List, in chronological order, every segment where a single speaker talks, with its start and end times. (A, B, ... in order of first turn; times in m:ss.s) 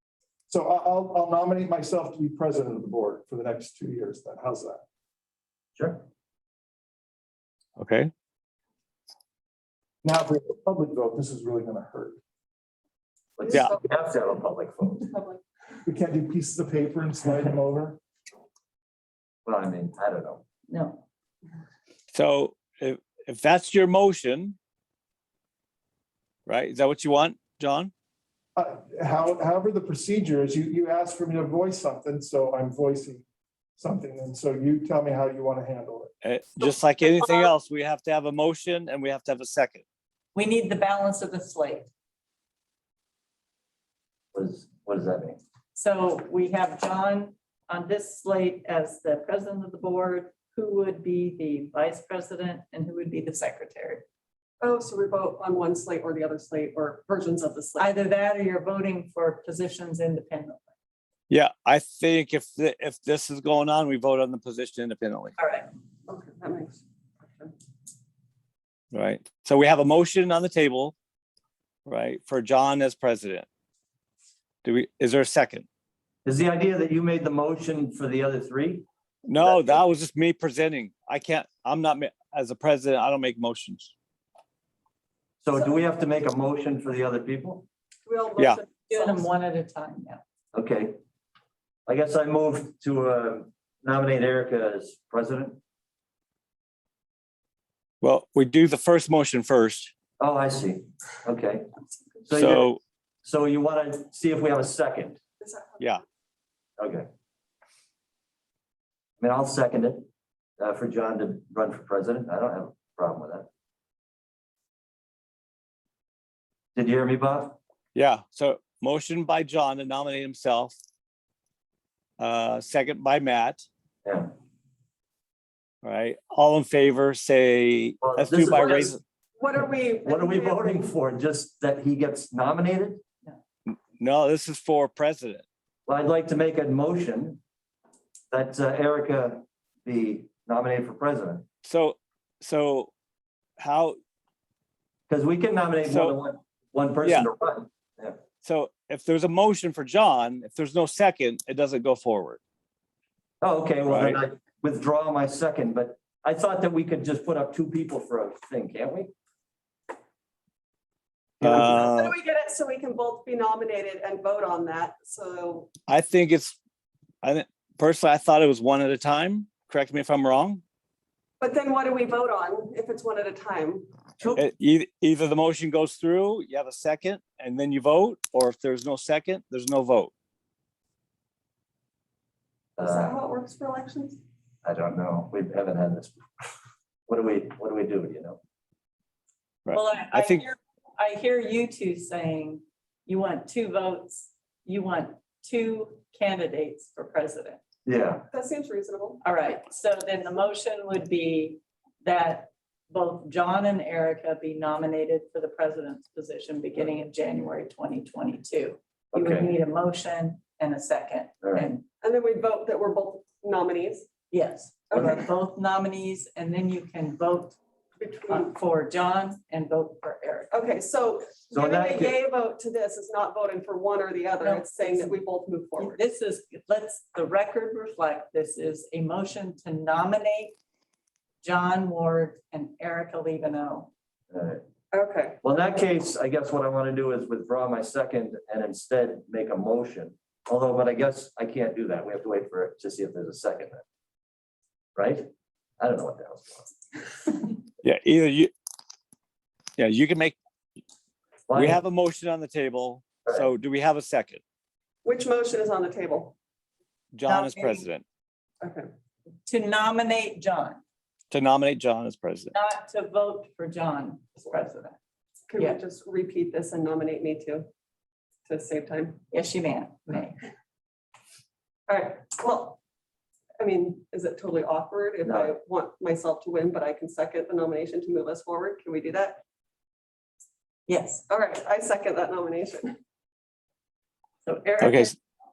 0:00.5-0:04.8 A
0:05.8-0:06.0 B
0:07.8-0:08.1 C
0:10.0-0:12.2 A
0:13.4-0:15.1 B
0:13.5-0:13.8 D
0:15.1-0:15.4 D
0:15.8-0:18.0 A
0:19.4-0:20.4 B
0:20.7-0:21.0 E
0:22.1-0:24.6 C
0:26.5-0:27.9 C
0:28.6-0:33.2 A
0:33.8-0:36.1 A
0:36.2-0:39.8 C
0:40.3-0:41.9 E
0:44.3-0:45.4 B
0:45.7-0:54.0 E
0:54.6-0:58.0 D
0:57.8-1:00.6 E
1:01.3-1:05.3 C
1:05.4-1:05.7 E
1:06.1-1:07.5 D
1:08.9-1:10.9 C
1:11.8-1:13.4 C
1:14.6-1:15.6 C
1:16.2-1:18.8 B
1:19.3-1:23.9 C
1:19.4-1:19.8 B
1:25.4-1:27.6 B
1:28.0-1:29.2 D
1:28.8-1:30.2 E
1:30.5-1:31.0 B
1:31.9-1:35.6 B
1:38.0-1:39.9 C
1:40.2-1:41.7 B
1:42.2-1:42.7 B
1:42.3-1:42.8 C
1:43.2-1:45.2 B
1:45.4-1:46.0 D
1:46.8-1:47.1 B
1:49.2-1:50.0 B
1:50.6-1:53.5 B
1:56.7-1:57.6 B
1:57.9-2:00.7 C
2:02.2-2:03.6 C
2:05.8-2:09.0 C
2:08.0-2:08.9 B
2:08.5-2:10.9 D
2:10.0-2:13.0 B
2:13.7-2:15.4 C
2:15.8-2:17.4 B
2:18.3-2:21.4 B
2:21.6-2:22.9 C
2:23.6-2:24.0 C
2:25.1-2:28.2 B
2:25.9-2:26.2 C
2:27.0-2:27.3 C
2:28.4-2:32.4 C
2:33.4-2:39.1 B
2:33.8-2:34.2 C
2:41.4-2:42.1 C
2:41.4-2:41.8 B
2:41.5-2:45.7 D
2:45.9-2:46.6 C
2:47.2-2:50.6 C
2:51.4-2:54.3 D
2:54.3-3:00.1 C
3:02.8-3:03.2 B
3:02.8-3:04.2 D
3:04.6-3:06.5 B
3:07.1-3:08.4 B
3:09.6-3:10.4 C
3:09.7-3:17.6 E
3:17.8-3:18.2 B
3:18.3-3:19.2 D
3:19.2-3:31.8 E
3:29.1-3:29.5 B
3:31.4-3:31.7 B
3:32.0-3:34.1 D
3:34.3-3:37.6 E
3:34.9-3:35.2 D
3:34.9-3:35.2 B
3:38.0-3:38.5 D
3:38.3-3:40.6 E
3:40.5-3:46.0 D
3:41.5-3:42.2 B
3:44.4-3:45.2 E
3:45.8-3:50.6 E
3:51.4-3:53.9 E
3:54.3-3:54.6 B
3:54.9-3:55.4 D
3:55.4-4:03.8 B
4:05.0-4:05.3 B
4:05.8-4:06.7 B
4:07.8-4:08.5 C
4:09.8-4:10.4 C
4:11.5-4:11.8 B
4:11.5-4:14.4 C
4:15.0-4:16.3 D
4:17.1-4:18.0 C
4:17.2-4:17.8 E
4:18.6-4:18.9 D
4:19.4-4:20.8 E
4:21.3-4:22.5 C
4:22.5-4:25.0 E
4:25.5-4:27.7 D
4:28.5-4:29.2 D
4:29.3-4:30.4 E
4:31.9-4:32.8 D
4:33.6-4:39.4 D
4:35.2-4:35.5 B
4:40.9-4:41.2 E
4:41.3-4:43.0 D
4:44.4-4:45.2 E
4:44.8-4:45.1 C